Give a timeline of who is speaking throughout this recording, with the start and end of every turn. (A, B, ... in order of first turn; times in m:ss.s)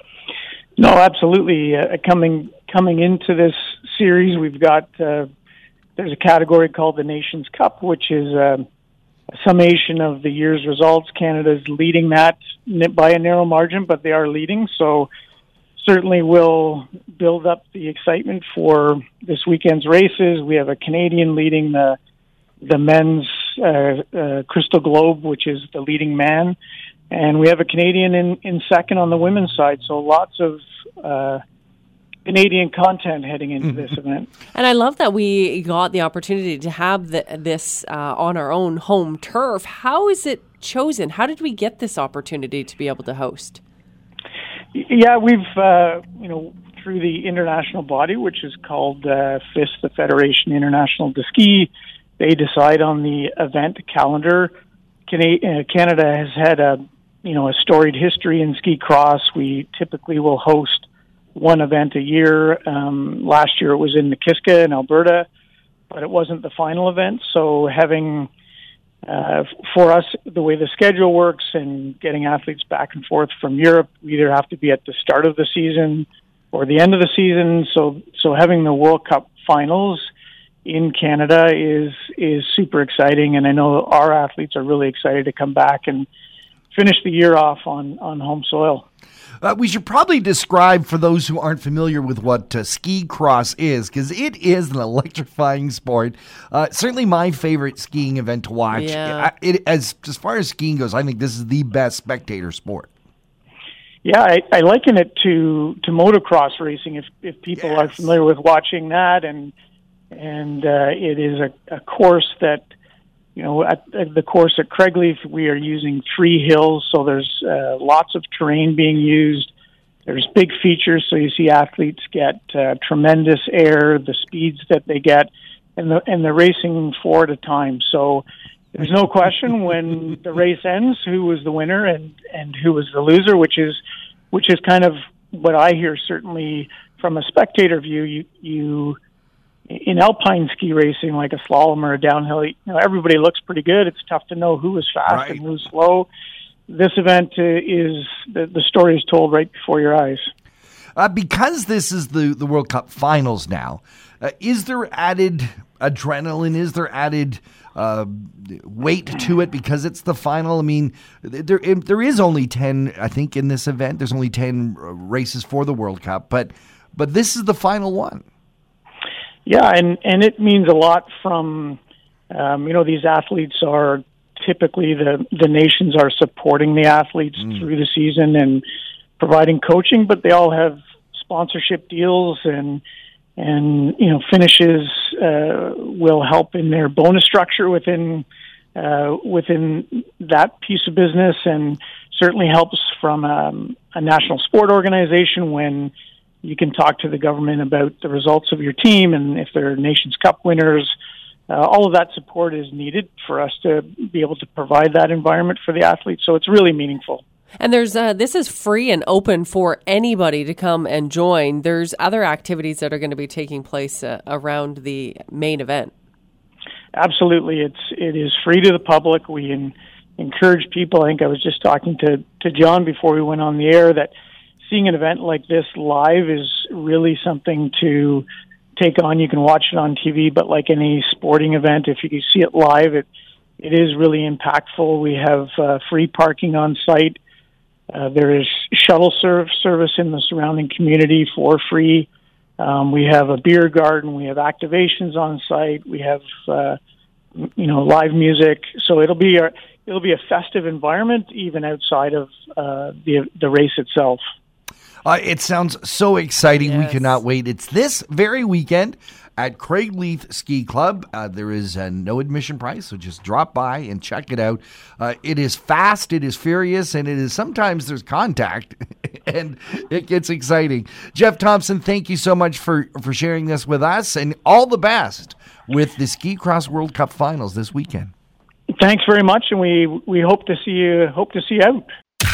0:00.8-0:05.3 A
0:06.0-0:08.6 A
0:09.4-0:15.1 A
0:15.8-0:22.0 A
0:22.6-0:26.6 A
0:27.1-0:31.4 A
0:32.2-0:34.3 A
0:34.5-0:43.6 B
0:44.7-0:54.5 A
0:55.1-1:05.3 A
1:05.9-1:08.3 A
1:09.0-1:20.0 A
1:20.6-1:26.1 A
1:26.7-1:28.8 A
1:29.4-1:42.9 C
1:38.7-1:39.3 B
1:44.0-1:49.5 A
1:47.6-1:47.9 C
1:50.1-1:52.6 A
1:53.3-1:59.5 A
2:00.0-2:13.8 A
2:14.3-2:19.0 A
2:19.7-2:26.1 A
2:25.1-2:25.4 C
2:26.7-2:30.3 A
2:31.0-2:48.2 C
2:49.4-2:51.8 A
2:52.3-2:58.6 A
2:59.2-3:02.8 A
3:03.4-3:20.9 A
3:21.5-3:27.2 A
3:27.6-3:35.9 B
3:36.9-3:44.1 A
3:44.6-3:48.2 A
3:48.8-3:53.1 A
3:53.6-3:57.2 A
3:57.9-4:02.1 A
4:02.6-4:06.8 A
4:07.4-4:14.2 A
4:15.0-4:38.1 C
4:16.5-4:17.2 B
4:38.8-4:41.8 A